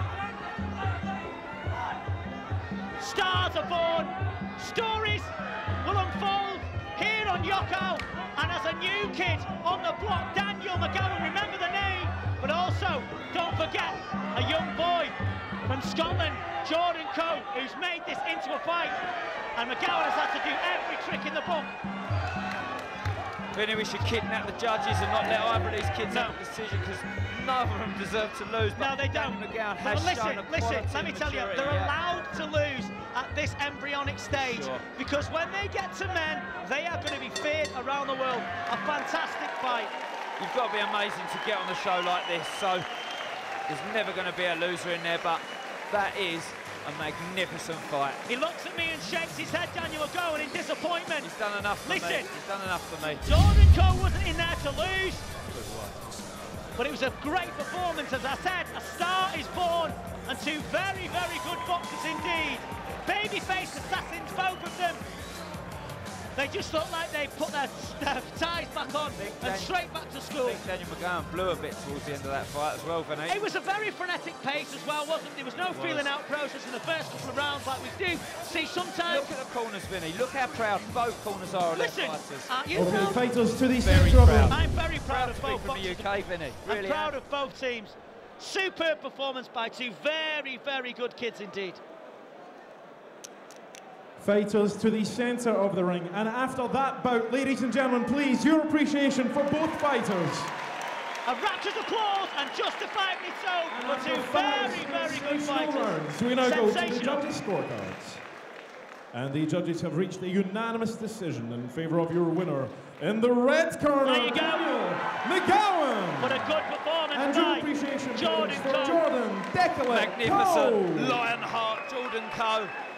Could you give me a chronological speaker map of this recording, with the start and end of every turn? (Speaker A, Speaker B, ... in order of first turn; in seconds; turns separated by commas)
Speaker A: 3.0-19.0, Speaker A: 19.6-21.7, Speaker B: 23.5-31.9, Speaker A: 26.1-26.4, Speaker A: 28.8-39.9, Speaker B: 34.4-34.8, Speaker B: 40.4-42.9, Speaker B: 43.7-48.2, Speaker A: 48.3-51.3, Speaker B: 51.2-53.4, Speaker A: 51.8-52.3, Speaker A: 53.2-55.3, Speaker B: 55.5-56.0, Speaker A: 56.8-65.0, Speaker A: 66.4-70.7, Speaker B: 69.2-69.8, Speaker B: 70.4-73.4, Speaker A: 73.3-79.3, Speaker B: 75.7-76.1, Speaker B: 79.1-82.5, Speaker A: 81.7-83.2, Speaker C: 82.7-84.8, Speaker B: 83.8-87.1, Speaker A: 84.5-86.1, Speaker A: 86.6-91.8, Speaker C: 94.2-100.5, Speaker A: 101.2-107.2, Speaker C: 103.7-108.2, Speaker C: 109.1-116.6, Speaker A: 114.0-114.7, Speaker A: 116.2-119.0, Speaker C: 117.1-121.2, Speaker B: 119.9-122.7